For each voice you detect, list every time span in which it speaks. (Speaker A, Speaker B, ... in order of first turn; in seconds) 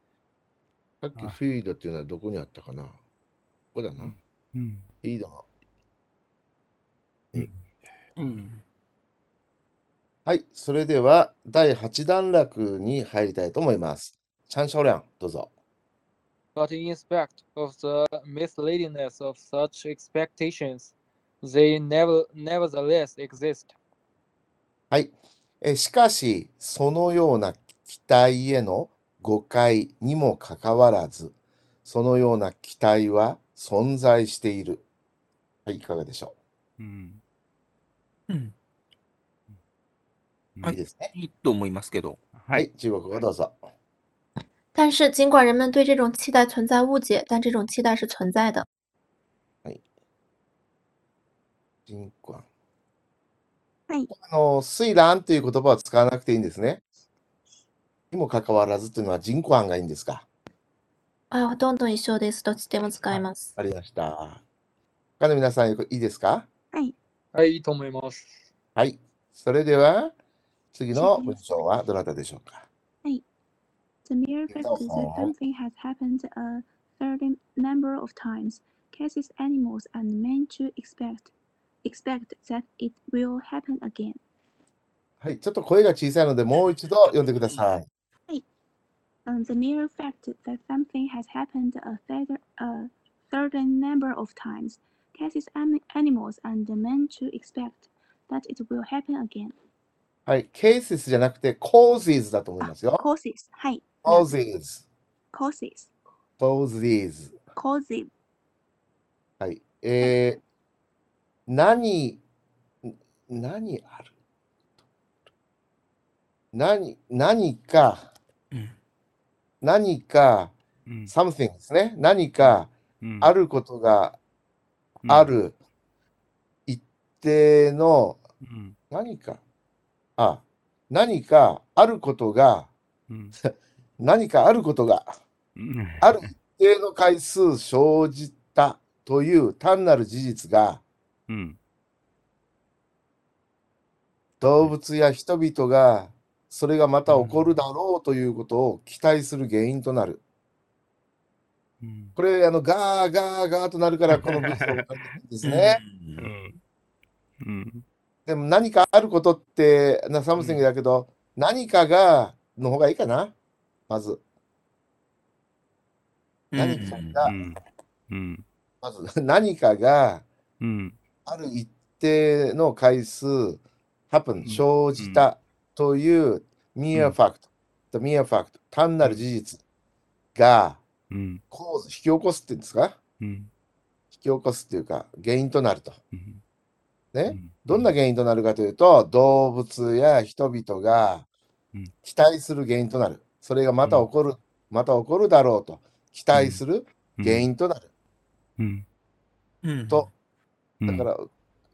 Speaker A: 1.0-3.0, 3.7-4.1, 5.0-5.4, 10.2-15.5, 24.9-31.3, 31.8-34.8, 35.6-36.3, 40.7-41.1, 42.5-43.6, 51.9-52.4, 54.1-56.8, 58.1-60.2, 63.5-64.4, 65.2-66.5, 68.8-70.1, 70.7-72.7, 74.5-75.3, 85.2-87.8, 100.2-103.0, 104.0-104.8, 106.4-107.3, 109.4-110.4, 111.5-112.2, 112.8-114.1, 116.5-118.1, 119.6-120.5, 121.1-124.2, 125.1-125.5, 126.7-128.2, 128.9-129.4, 130.2-132.7, 133.4-135.1, 136.0-140.8, 144.4-150.2, 152.2-155.8, 158.3-163.3, 163.9-164.2, 166.6-167.3, 168.8-170.2, 171.2-179.6, 180.3-180.8, 181.5-183.0, 184.2-186.0, 187.1-191.2, 192.0-197.8, 200.9-201.3
Speaker B: 4.0-4.8, 36.8-37.2, 42.4-42.7, 120.9-121.1, 123.0-123.3, 125.0-125.3, 128.4-128.8, 133.1-133.3, 135.6-136.3, 141.3-141.6, 151.8-152.2, 156.2-156.6, 157.4-157.8, 167.2-168.4, 170.6-171.0, 174.4-175.3, 181.1-181.4, 183.2-183.5, 186.1-186.4, 187.3-187.9, 196.3-196.6, 197.2-197.5, 198.6-198.8, 200.8-201.1
Speaker C: 8.2-8.6, 38.3-38.5, 40.6-42.2, 147.1-147.4, 155.4-156.3, 166.5-167.2, 199.6-200.1
Speaker D: 16.6-23.7, 67.3-68.3
Speaker E: 44.7-48.6, 61.3-63.5
Speaker F: 70.9-71.4, 74.0-81.3, 81.8-84.2, 89.2-99.5, 102.6-104.3, 105.3-105.9, 107.5-108.1